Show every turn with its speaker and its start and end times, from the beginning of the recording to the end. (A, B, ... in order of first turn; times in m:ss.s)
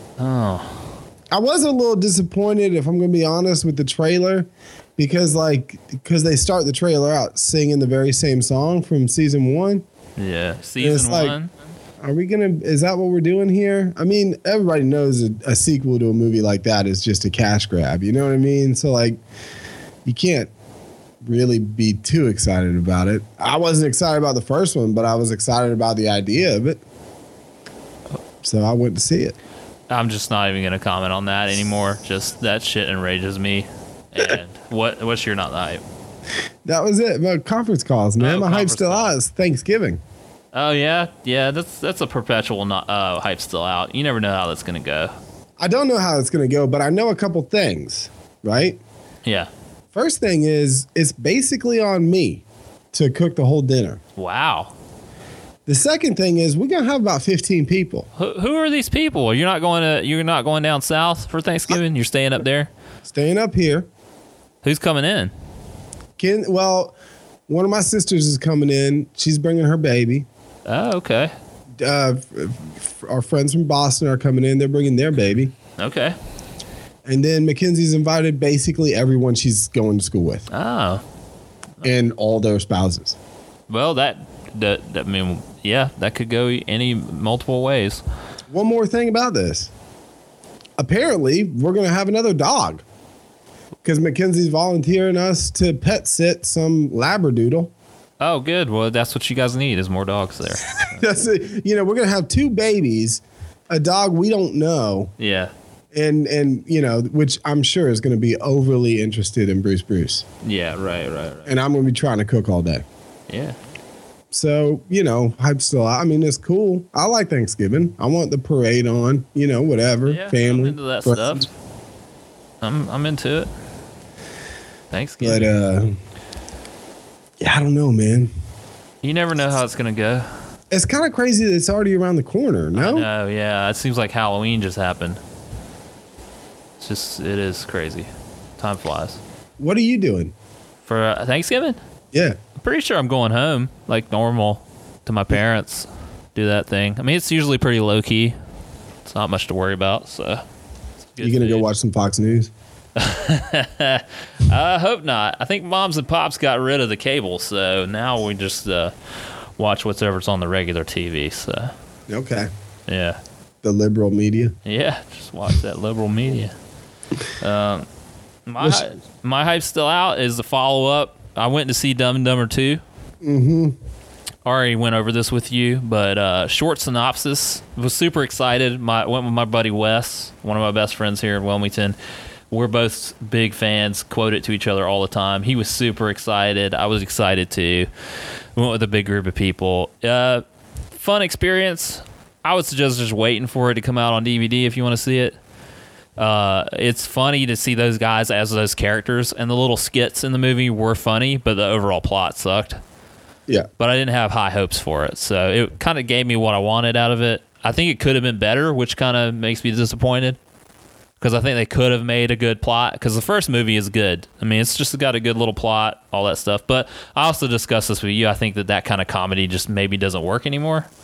0:00.2-0:00.8 A
0:01.3-0:09.8 B
0:10.2-0:11.5 A
0:10.8-0:11.4 B
0:12.0-0:19.2 B
0:20.1-0:20.5 B
0:21.2-0:26.8 B
0:28.4-0:29.4 B
0:29.9-0:35.8 A
0:36.6-0:40.0 B
0:38.2-0:39.1 A
0:40.5-0:45.1 A
0:45.6-0:48.8 B
0:49.2-0:49.5 A
0:49.9-0:54.0 B
0:54.2-0:54.7 A
0:55.7-0:58.1 B
0:58.2-1:02.7 A
1:03.0-1:03.9 B
1:04.6-1:05.3 A
1:06.2-1:07.0 B
1:07.5-1:10.3 B
1:10.7-1:11.3 A
1:11.8-1:15.5 B
1:15.8-1:16.2 A
1:17.1-1:20.5 B
1:20.5-1:21.0 A
1:21.8-1:23.2 B
1:23.7-1:28.0 A
1:28.5-1:29.7 B
1:30.8-1:32.8 B
1:33.8-1:37.7 B
1:38.2-1:41.0 A
1:40.7-1:45.1 B
1:45.2-1:45.5 A
1:45.9-1:50.2 B
1:50.4-1:51.6 A
1:51.5-1:52.8 B
1:53.3-1:53.6 A
1:54.3-2:01.4 B
2:00.1-2:01.5 A
2:02.6-2:03.5 A
2:04.9-2:05.5 A
2:05.2-2:06.0 B
2:07.4-2:08.3 B
2:09.0-2:10.3 A
2:10.7-2:13.1 B
2:12.7-2:15.2 A
2:16.8-2:19.2 A
2:19.6-2:20.3 B
2:20.8-2:21.8 A
2:22.1-2:22.4 B
2:22.6-2:28.4 A
2:29.0-2:30.4 A
2:31.1-2:31.7 A
2:31.2-2:32.5 B
2:33.0-2:38.9 A
2:39.6-2:41.7 A
2:42.1-2:42.5 B
2:42.9-2:43.2 A
2:43.6-2:44.6 B
2:44.6-2:46.6 A
2:47.4-2:47.9 A
2:48.5-2:52.8 A
2:53.2-2:53.8 B
2:54.4-3:02.0 A
3:02.5-3:07.9 A
3:08.6-3:15.4 A
3:16.2-3:22.8 A
3:23.8-3:30.4 A
3:31.2-3:40.9 A